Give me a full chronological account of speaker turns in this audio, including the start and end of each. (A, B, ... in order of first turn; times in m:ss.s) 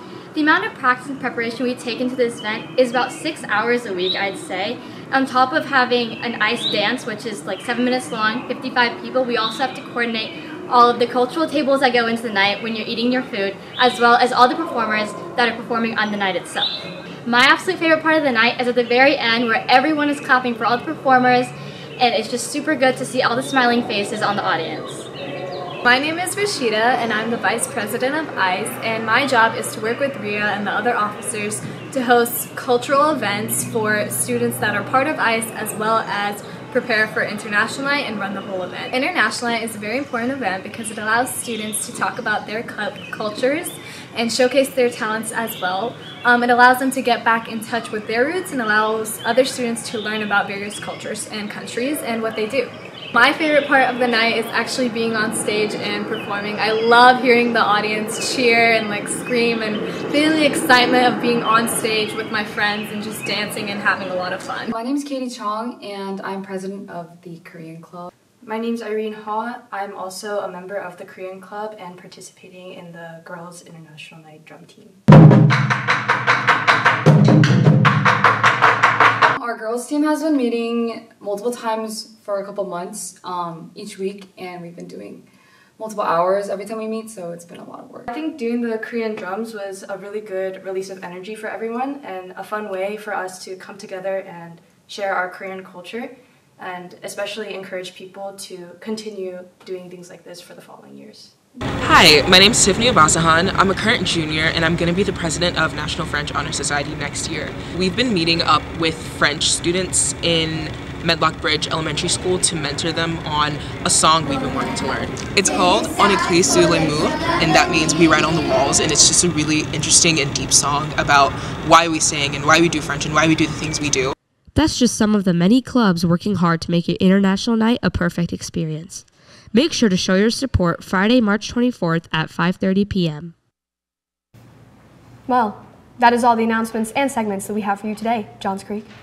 0:00.3-0:25.1 A
0:25.8-1:04.7 B
1:04.7-1:08.1 C
1:08.4-1:15.0 D
1:19.4-1:25.2 C
1:25.8-1:28.1 C
1:28.1-1:41.3 D
1:41.8-2:04.1 E
2:04.5-2:13.3 F
2:15.3-2:18.9 G